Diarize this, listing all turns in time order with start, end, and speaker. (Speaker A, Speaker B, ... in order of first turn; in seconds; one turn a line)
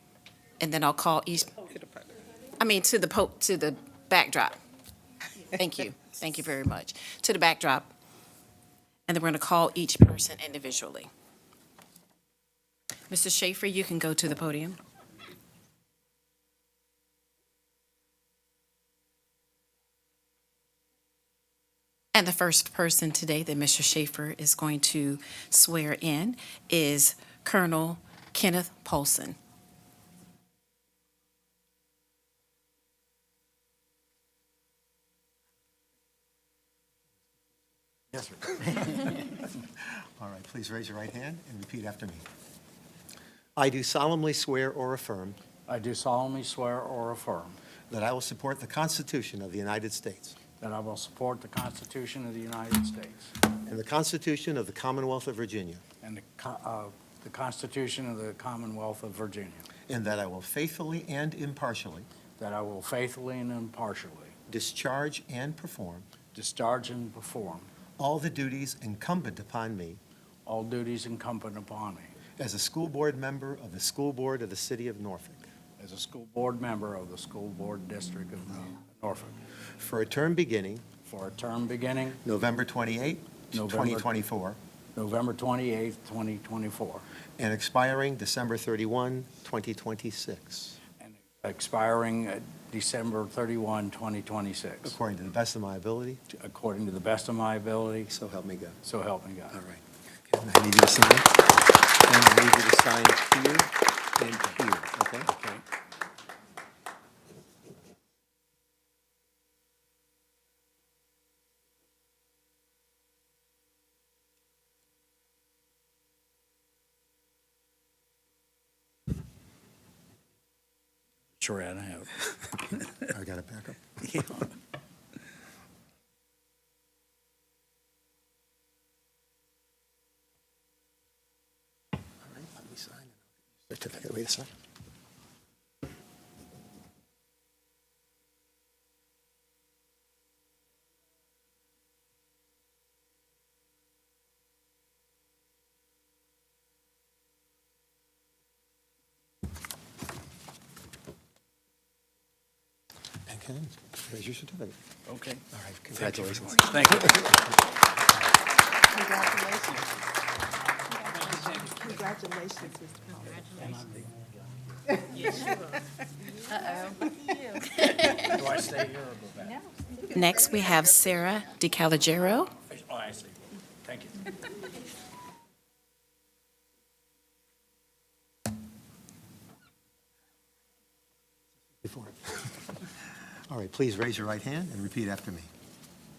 Speaker A: 0.6-1.6
Speaker B: 1.7-2.1
Speaker A: 2.6-4.6
Speaker A: 5.5-7.9
Speaker A: 9.1-11.1
Speaker A: 13.1-14.8
Speaker A: 22.1-29.4
Speaker C: 38.1-39.2
Speaker D: 40.2-42.2
Speaker D: 43.6-45.4
Speaker C: 45.7-47.6
Speaker D: 47.9-50.4
Speaker C: 50.6-53.3
Speaker D: 53.6-55.8
Speaker C: 56.0-59.6
Speaker D: 59.9-62.1
Speaker C: 62.4-64.3
Speaker D: 64.5-66.1
Speaker C: 66.3-67.7
Speaker D: 68.0-70.0
Speaker C: 70.5-72.1
Speaker D: 72.4-75.5
Speaker C: 75.8-79.4
Speaker D: 79.8-80.9
Speaker C: 81.0-82.2
Speaker D: 82.2-84.6
Speaker C: 83.5-84.1
Speaker C: 85.0-87.0
Speaker D: 87.4-90.7
Speaker C: 91.0-95.0
Speaker D: 94.8-96.2
Speaker C: 96.3-98.1
Speaker D: 98.1-98.8
Speaker C: 98.8-99.6
Speaker D: 99.5-101.3
Speaker D: 102.0-105.3
Speaker C: 105.3-105.6
Speaker C: 121.4-123.1
Speaker D: 123.1-123.8
Speaker C: 124.0-124.5
Speaker D: 132.2-134.5
Speaker D: 153.3-154.8
Speaker C: 155.1-155.4
Speaker D: 155.5-157.3
Speaker C: 155.9-157.5
Speaker B: 158.9-159.9
Speaker B: 161.1-163.5
Speaker C: 161.3-161.6
Speaker C: 163.5-165.0
Speaker C: 167.8-169.6
Speaker B: 170.1-170.8
Speaker A: 170.1-172.5
Speaker C: 172.7-174.3
Speaker D: 181.8-182.5
Speaker D: 183.5-185.5